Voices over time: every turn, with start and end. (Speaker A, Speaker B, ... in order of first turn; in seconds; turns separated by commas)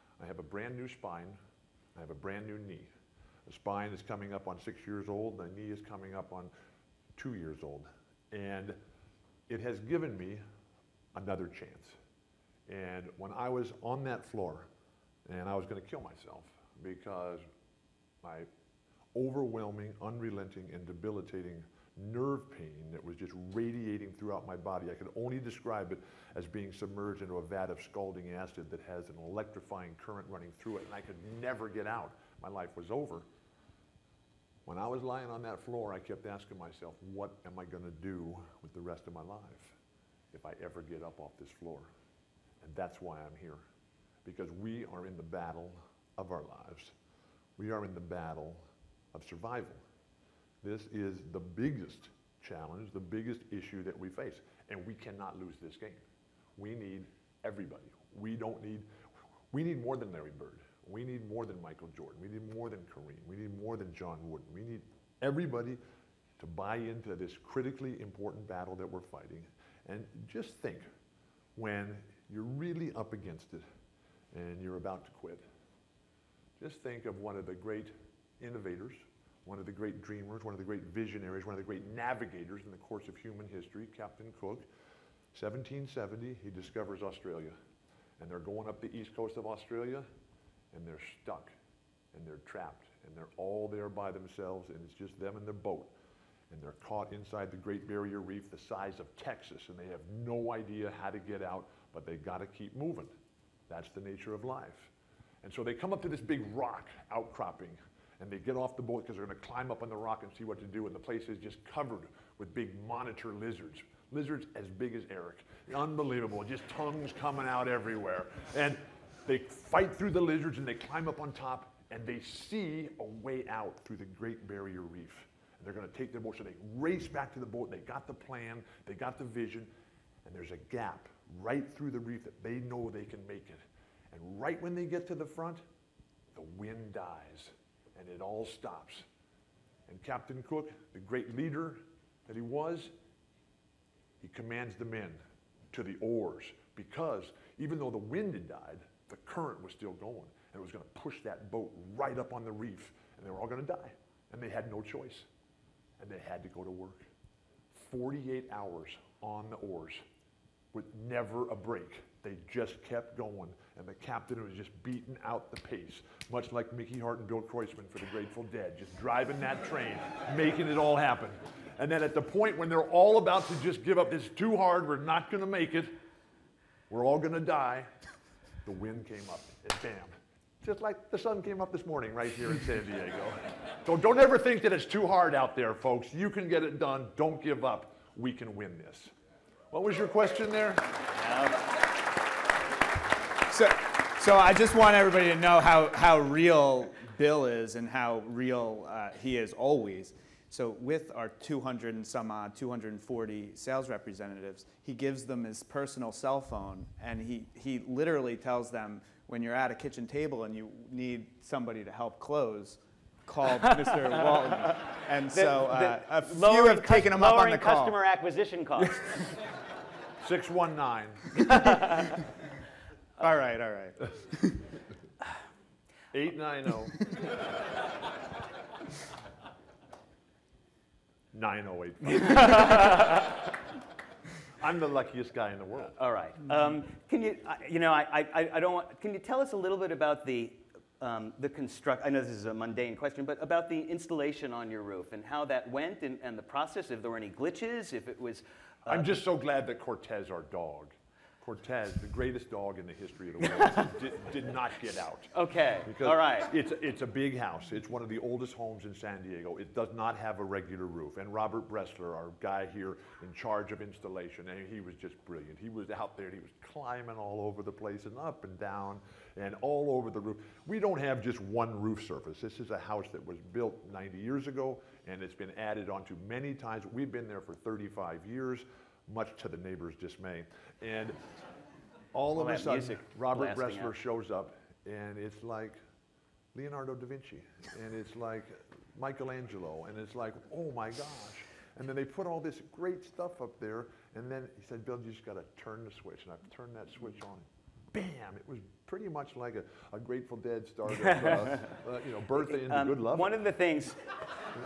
Speaker A: 0.2-1.4, Speaker A: 1.9-2.9, Speaker A: 3.5-6.5, Speaker A: 7.2-8.8, Speaker A: 9.5-10.4, Speaker A: 11.1-11.9, Speaker A: 12.7-14.7, Speaker A: 15.2-17.4, Speaker A: 18.2-18.5, Speaker A: 19.1-33.2, Speaker A: 34.6-39.8, Speaker A: 40.3-41.9, Speaker A: 42.6-43.6, Speaker A: 44.2-46.9, Speaker A: 47.6-49.8, Speaker A: 50.6-56.0, Speaker A: 56.5-58.9, Speaker A: 59.5-65.8, Speaker A: 66.4-70.8, Speaker A: 71.5-73.6, Speaker A: 74.3-75.4, Speaker A: 76.6-84.7, Speaker A: 85.3-87.5, Speaker A: 88.2-90.0, Speaker A: 90.7-91.5, Speaker A: 92.1-95.9, Speaker A: 96.5-103.1, Speaker A: 103.7-104.9, Speaker A: 105.4-129.7, Speaker A: 130.2-135.6, Speaker A: 136.3-139.1, Speaker A: 139.9-142.9, Speaker A: 144.2-145.2, Speaker A: 145.7-155.3, Speaker A: 156.0-157.1, Speaker A: 157.7-160.0, Speaker A: 160.7-175.9, Speaker A: 176.9-177.9, Speaker A: 178.6-189.1, Speaker A: 189.7-190.9, Speaker B: 191.2-191.6, Speaker C: 193.5-218.0, Speaker B: 213.8-214.8, Speaker B: 215.3-219.0, Speaker C: 218.8-219.2, Speaker A: 220.2-221.3, Speaker B: 221.4-222.2, Speaker C: 223.2-224.6, Speaker A: 226.1-227.0, Speaker A: 231.3-233.2, Speaker B: 232.1-233.2, Speaker A: 234.6-235.9, Speaker B: 236.0-249.1, Speaker A: 248.9-255.3, Speaker B: 253.6-253.8, Speaker B: 255.3-256.5, Speaker A: 255.8-281.2, Speaker A: 282.1-285.8, Speaker B: 282.4-283.9, Speaker A: 286.5-303.4, Speaker B: 300.9-301.7, Speaker B: 302.4-304.0